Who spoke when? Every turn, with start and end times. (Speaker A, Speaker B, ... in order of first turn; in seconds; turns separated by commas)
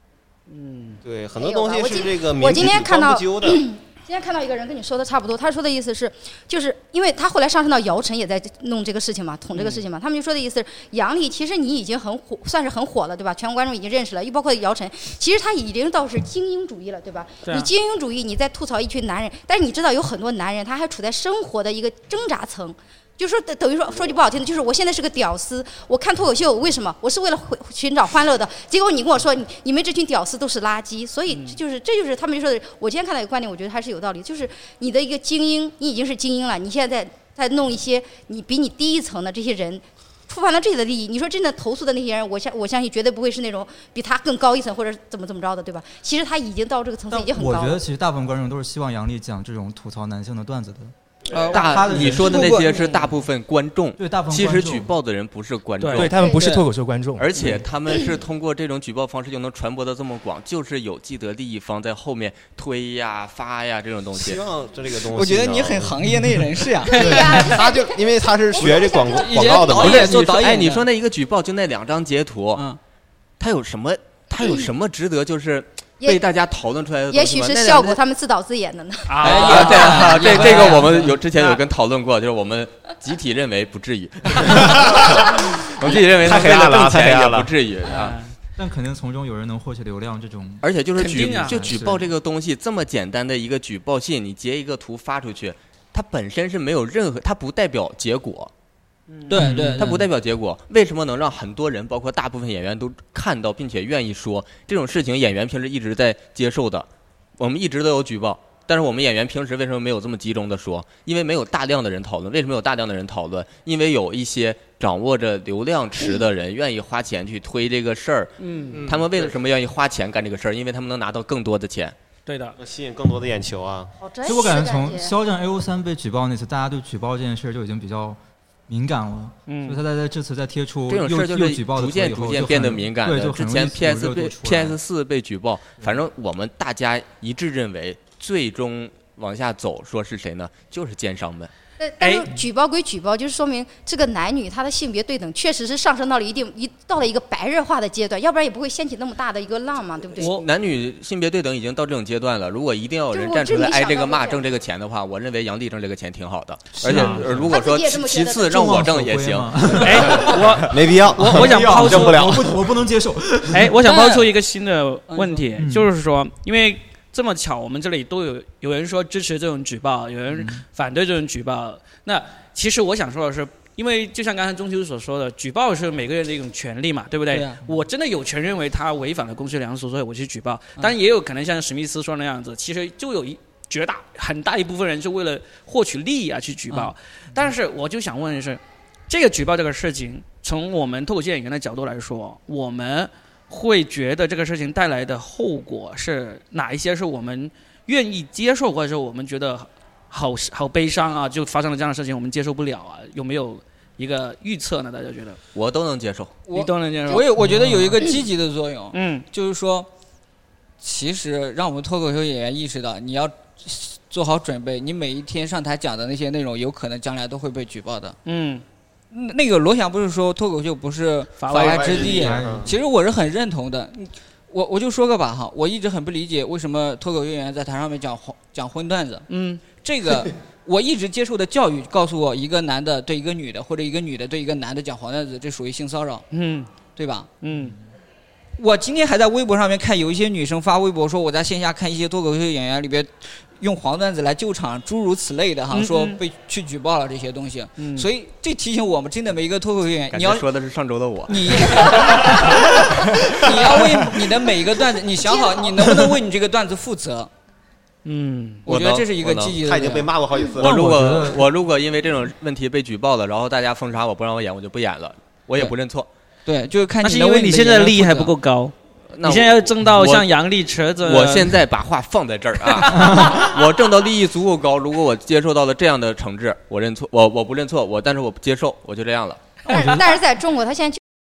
Speaker A: 0.5-1.0, Speaker B: 1.0-3.6, Speaker C: 1.4-47.8, Speaker A: 9.5-9.9, Speaker A: 31.3-31.6, Speaker D: 47.1-50.9, Speaker E: 51.3-52.9, Speaker D: 51.5-52.4, Speaker F: 51.5-56.1, Speaker D: 54.0-54.9, Speaker A: 55.8-56.1, Speaker G: 56.0-57.3, Speaker C: 56.1-56.4, Speaker E: 56.3-56.7, Speaker F: 57.2-64.4, Speaker B: 64.2-66.0, Speaker E: 65.1-67.5, Speaker D: 66.0-66.4, Speaker C: 66.8-70.0, Speaker D: 67.0-67.3, Speaker B: 67.3-70.2, Speaker E: 69.1-70.8, Speaker F: 69.8-72.6, Speaker F: 73.4-78.0, Speaker C: 76.0-76.3, Speaker C: 77.1-79.5, Speaker A: 79.1-80.9, Speaker E: 79.2-81.1, Speaker F: 79.3-88.2, Speaker G: 86.2-87.0, Speaker B: 86.2-87.5, Speaker A: 87.9-88.3, Speaker D: 88.6-90.7, Speaker F: 90.6-98.5, Speaker A: 91.0-91.7, Speaker D: 91.2-92.1, Speaker A: 99.1-99.3, Speaker E: 99.3-100.0, Speaker D: 99.4-99.8, Speaker F: 99.4-106.9, Speaker F: 107.4-121.9, Speaker A: 118.4-118.8, Speaker B: 118.7-119.4, Speaker A: 122.3-122.6, Speaker B: 122.6-123.9, Speaker C: 124.0-125.1, Speaker D: 124.2-134.8, Speaker A: 129.5-129.8, Speaker F: 130.9-141.5, Speaker C: 141.8-150.3, Speaker A: 142.0-142.3, Speaker A: 150.2-150.5, Speaker F: 150.2-159.9, Speaker C: 153.1-154.4, Speaker D: 156.8-157.5, Speaker C: 157.5-158.8, Speaker D: 158.5-163.8, Speaker A: 159.8-162.4, Speaker B: 160.7-162.6, Speaker A: 163.5-205.4, Speaker E: 163.8-164.3, Speaker E: 165.1-165.5, Speaker D: 165.6-165.9, Speaker D: 170.3-170.6, Speaker E: 177.3-177.6, Speaker F: 205.5-206.3, Speaker E: 206.5-209.9, Speaker A: 206.5-207.3, Speaker D: 207.4-208.0, Speaker A: 208.9-209.2, Speaker E: 210.8-218.2, Speaker A: 218.2-218.6, Speaker E: 219.1-236.2, Speaker A: 221.4-222.0, Speaker B: 221.5-222.7, Speaker D: 222.0-222.7, Speaker A: 229.3-229.6, Speaker A: 236.3-236.7, Speaker E: 236.9-237.3, Speaker A: 237.4-237.8, Speaker E: 238.6-250.5, Speaker A: 245.7-246.2, Speaker A: 247.8-248.1, Speaker F: 250.1-252.0, Speaker E: 251.3-257.3, Speaker C: 255.2-255.9, Speaker A: 258.0-258.6, Speaker E: 258.6-260.1, Speaker F: 258.7-259.6, Speaker B: 259.6-261.1, Speaker F: 260.6-266.1, Speaker D: 260.6-261.4, Speaker E: 266.4-268.3, Speaker A: 267.0-271.6, Speaker F: 269.1-270.3, Speaker F: 271.0-279.4, Speaker D: 273.1-273.4, Speaker D: 279.7-280.2, Speaker C: 279.7-281.0